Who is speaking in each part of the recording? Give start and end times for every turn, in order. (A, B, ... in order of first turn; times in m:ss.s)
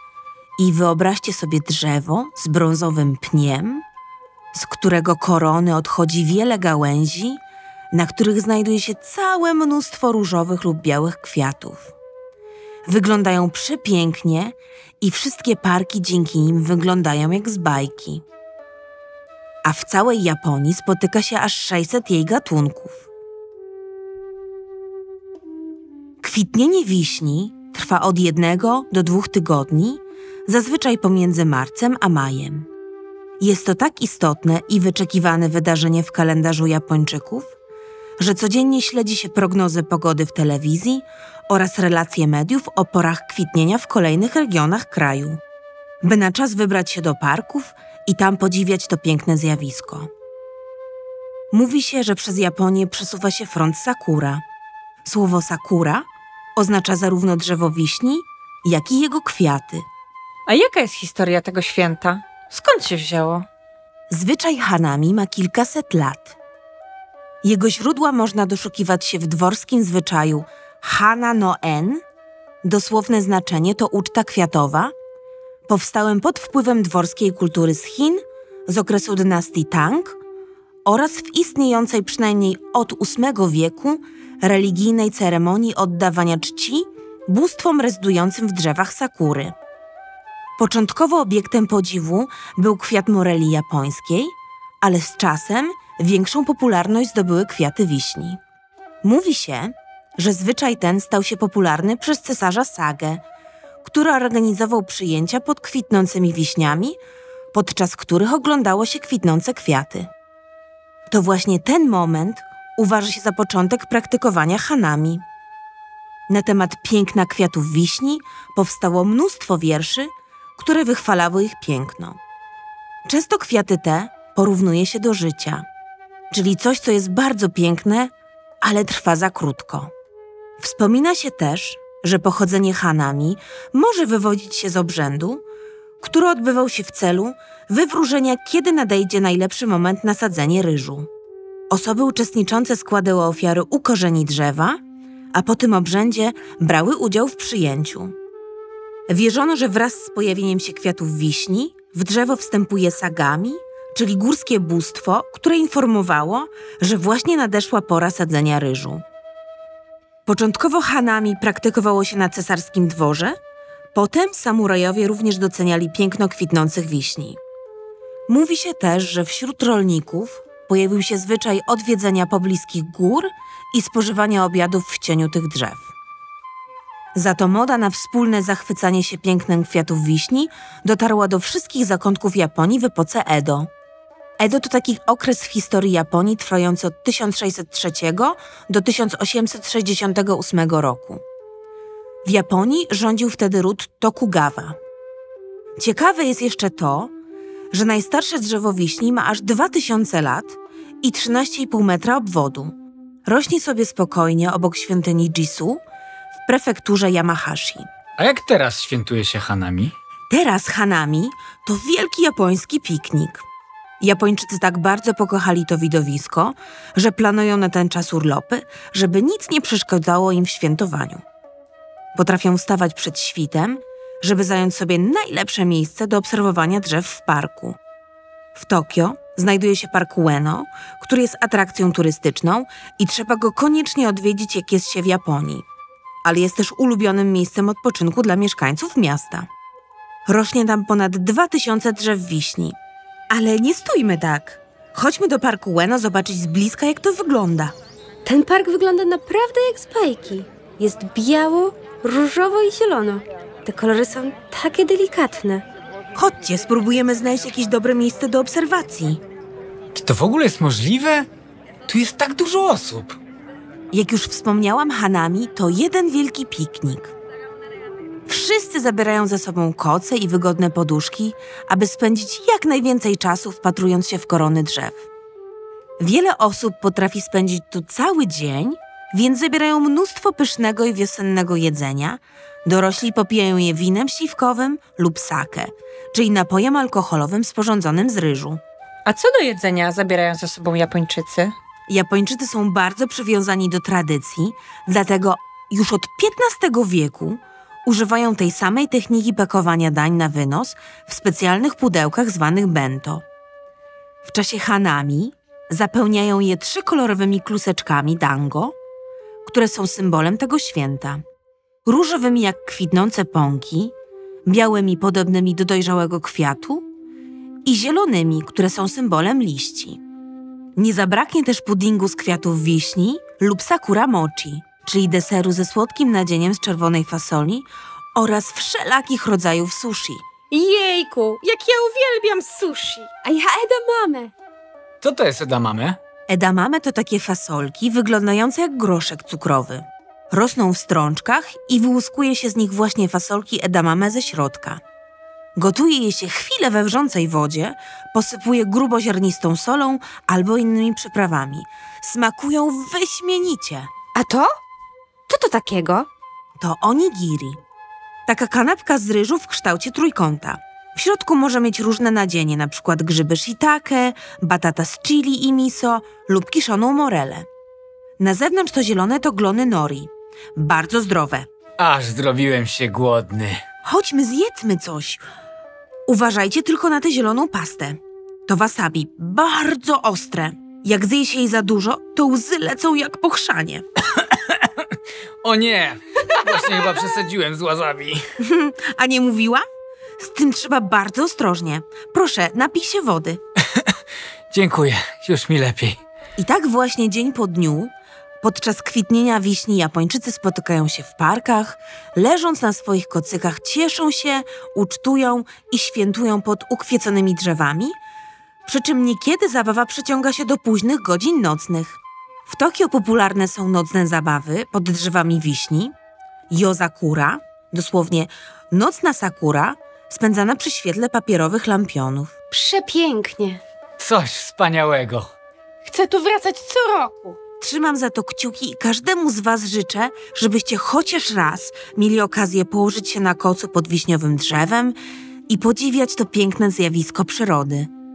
0:00.6-0:03.8 A
0:04.5-0:07.4 A
0:07.9-0:11.9 A
0:12.9-0:18.2 A
0:19.6-0:23.1 A
0:26.2-0:32.7 A
0:33.4-0:37.5 A
0:38.2-0:45.4 A
0:46.0-0:50.1 A
0:51.5-0:54.4 A
0:55.0-0:59.9 A
1:00.5-1:03.5 B
1:04.1-1:06.4 A
1:07.4-1:12.0 A
1:12.6-1:14.9 A
1:15.7-1:20.2 A
1:20.8-1:29.6 A
1:30.6-1:38.4 A
1:39.0-1:43.2 A
1:43.8-1:47.0 A
1:47.5-1:50.1 A
1:51.1-1:55.2 A
1:56.3-2:02.2 A
2:03.1-2:05.7 A
2:06.3-2:09.9 A
2:10.6-2:15.4 A
2:16.0-2:21.1 A
2:21.7-2:24.8 A
2:25.4-2:28.1 A
2:29.1-2:39.0 A
2:40.3-2:43.4 A
2:43.9-2:47.4 A
2:48.3-2:55.9 A
2:57.2-3:03.7 A
3:04.4-3:11.2 A
3:12.2-3:14.8 A
3:15.8-3:17.1 A
3:17.7-3:22.8 A
3:23.3-3:25.8 A
3:26.4-3:27.9 A
3:28.2-3:29.9 C
3:30.3-3:33.5 A
3:34.0-3:41.2 A
3:42.1-3:47.8 A
3:48.5-3:55.6 A
3:56.2-3:59.5 A
4:00.3-4:02.8 A
4:03.3-4:07.8 A
4:08.2-4:15.6 D
4:16.2-4:19.2 A
4:19.9-4:21.3 C
4:21.9-4:23.2 C
4:23.9-4:27.1 A
4:28.3-4:35.0 A
4:36.0-4:48.6 A
4:49.1-4:51.5 B
4:51.9-5:03.2 A
5:04.2-5:08.8 A
5:09.4-5:11.2 A
5:11.8-5:13.9 A
5:14.5-5:16.9 A
5:17.6-5:20.0 A
5:20.8-5:30.3 A
5:30.5-5:34.2 E
5:30.6-5:31.4 D
5:33.2-5:34.3 D
5:35.0-5:36.0 C
5:36.3-5:44.8 A
5:45.6-5:53.9 A
5:54.2-5:54.6 D
5:55.3-5:56.1 D
5:56.6-5:57.6 A
5:58.3-6:07.5 A
6:08.2-6:11.5 A
6:11.8-6:13.6 C
6:13.8-6:15.2 A
6:16.1-6:23.8 A
6:24.2-6:24.9 C
6:25.4-6:28.2 C
6:28.4-6:29.6 A
6:30.2-6:33.4 A
6:34.5-6:36.0 C
6:36.4-6:48.0 A
6:48.6-6:55.9 A
6:56.5-7:02.3 A
7:02.5-7:03.6 D
7:04.0-7:05.3 C
7:05.9-7:07.3 E
7:06.2-7:06.5 D
7:07.6-7:15.0 A
7:15.5-7:17.9 A